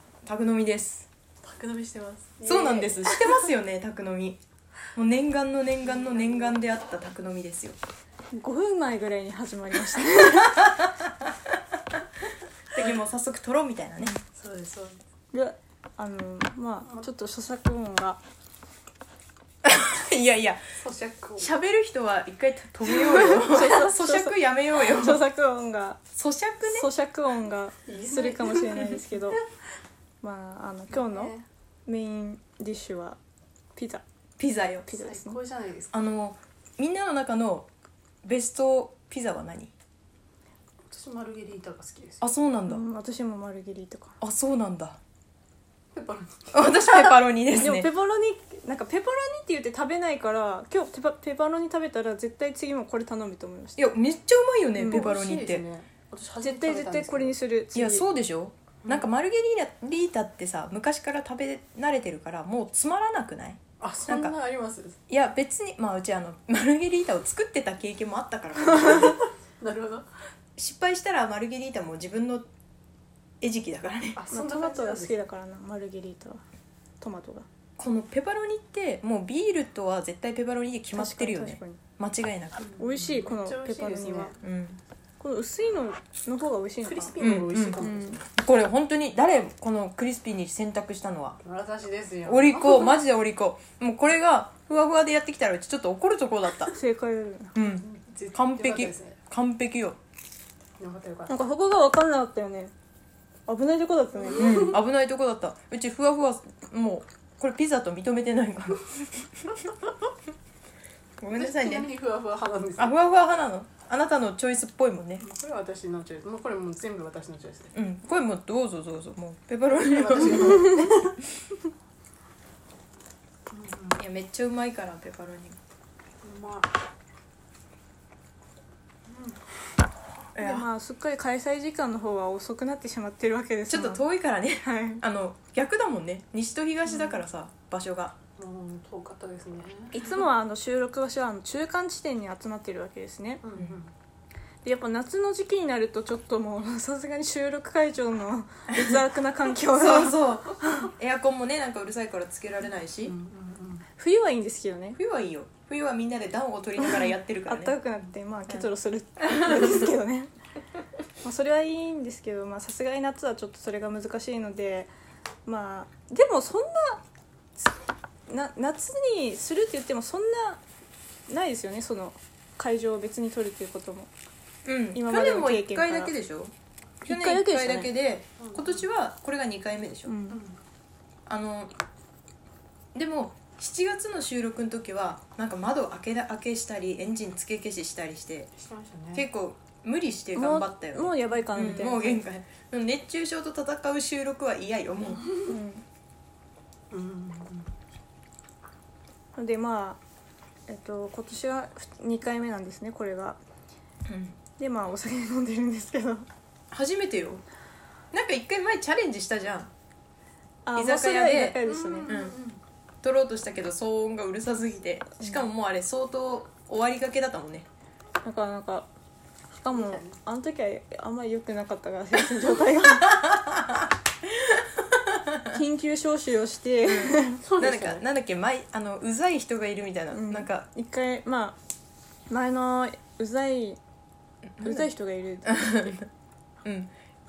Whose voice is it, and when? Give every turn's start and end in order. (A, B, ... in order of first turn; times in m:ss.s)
0:00.2-0:01.1 A
0:01.4-0:03.4 B
0:02.4-0:04.4 A
0:04.9-0:07.8 A
0:05.8-0:06.5 B
0:08.3-0:10.6 C
0:10.4-0:10.7 A
0:12.7-0:14.1 A
0:14.3-0:15.0 B
0:15.3-0:18.2 C
0:19.6-0:20.6 A
0:20.8-0:21.6 B
0:21.4-0:25.2 A
0:23.0-0:26.0 C
0:26.1-0:26.9 A
0:26.6-0:29.4 C
0:27.8-0:29.1 B
0:30.2-0:31.3 C
0:30.9-0:31.4 B
0:31.8-0:33.2 C
0:33.8-0:34.0 C
0:34.4-0:34.9 A
0:34.9-0:35.4 C
0:34.9-0:35.9 B
0:35.9-0:37.7 A
0:38.2-0:39.7 A
0:40.9-0:42.3 B
0:42.2-0:42.8 A
0:42.7-0:44.2 C
0:44.2-0:45.0 A
0:45.9-0:47.2 B
0:46.5-0:47.9 A
0:47.5-0:53.8 C
0:53.8-0:55.6 A
0:54.8-0:55.1 C
0:54.8-0:57.4 B
0:56.4-0:58.0 C
0:57.7-1:04.4 A
0:58.8-0:59.1 B
1:03.8-1:05.0 B
1:05.1-1:09.2 A
1:09.0-1:10.1 B
1:10.6-1:12.5 A
1:13.4-1:14.2 A
1:14.2-1:15.2 B
1:14.3-1:16.4 C
1:17.0-1:17.4 C
1:17.8-1:22.7 A
1:20.9-1:21.8 C
1:22.6-1:24.4 B
1:22.8-1:24.4 C
1:24.4-1:24.8 A
1:25.2-1:27.2 C
1:26.8-1:28.3 B
1:27.2-1:27.8 A
1:27.8-1:28.2 C
1:28.4-1:31.4 A
1:31.4-1:32.9 B
1:32.2-1:36.7 A
1:36.7-1:37.5 C
1:37.5-1:40.0 A
1:37.8-1:39.2 B
1:40.8-1:41.4 B
1:41.3-1:42.7 C
1:43.5-1:44.7 C
1:44.3-1:49.7 A
1:44.4-1:44.7 B
1:51.2-1:51.9 A
1:51.3-1:53.0 B
1:52.8-1:55.2 A
1:55.2-1:57.7 B
1:57.7-2:00.9 A
1:59.7-2:01.2 B
2:00.4-2:00.8 C
2:03.5-2:04.0 B
2:04.0-2:05.6 A
2:06.2-2:06.7 B
2:09.1-2:09.4 B
2:10.3-2:10.7 A
2:10.4-2:14.0 C
2:13.7-2:18.2 A
2:14.6-2:15.0 C
2:18.4-2:20.0 B
2:19.9-2:23.4 C
2:23.4-2:23.9 B
2:24.6-2:30.9 C
2:28.7-2:29.0 A
2:29.8-2:33.1 A
2:33.0-2:33.8 B
2:34.0-2:35.0 C
2:35.0-2:37.7 A
2:36.8-2:40.3 C
2:39.4-2:39.9 A
2:41.2-2:44.9 C
2:45.4-2:47.0 C
2:48.3-2:50.6 C
2:51.3-2:54.1 C
2:54.6-2:56.5 A
2:54.9-2:56.1 C
2:57.0-2:57.9 C
2:57.1-3:00.1 A
2:58.4-2:58.9 B
3:00.0-3:00.4 C
3:00.3-3:00.6 B
3:01.3-3:01.7 A
3:02.9-3:08.5 A
3:08.5-3:09.3 B
3:09.1-3:15.3 A
3:10.3-3:12.2 C
3:15.4-3:15.8 C
3:16.9-3:17.7 B
3:19.4-3:20.0 C
3:20.7-3:23.4 C
3:24.1-3:24.4 A
3:24.6-3:26.2 C
3:26.7-3:27.4 A
3:28.1-3:29.7 A
3:30.6-3:32.1 C
3:30.8-3:32.4 A
3:31.6-3:32.6 B
3:33.0-3:37.7 A
3:35.2-3:35.5 C
3:38.2-3:38.9 C
3:39.5-3:43.3 C
3:39.7-3:40.2 B
3:43.0-3:43.9 A
3:45.5-3:47.5 C
3:46.8-3:50.6 A
3:47.4-3:48.0 B
3:50.1-3:51.6 C
3:52.3-3:53.8 C
3:54.6-3:54.9 A
3:54.6-3:56.0 C
3:55.4-3:56.1 A
3:56.6-3:56.9 A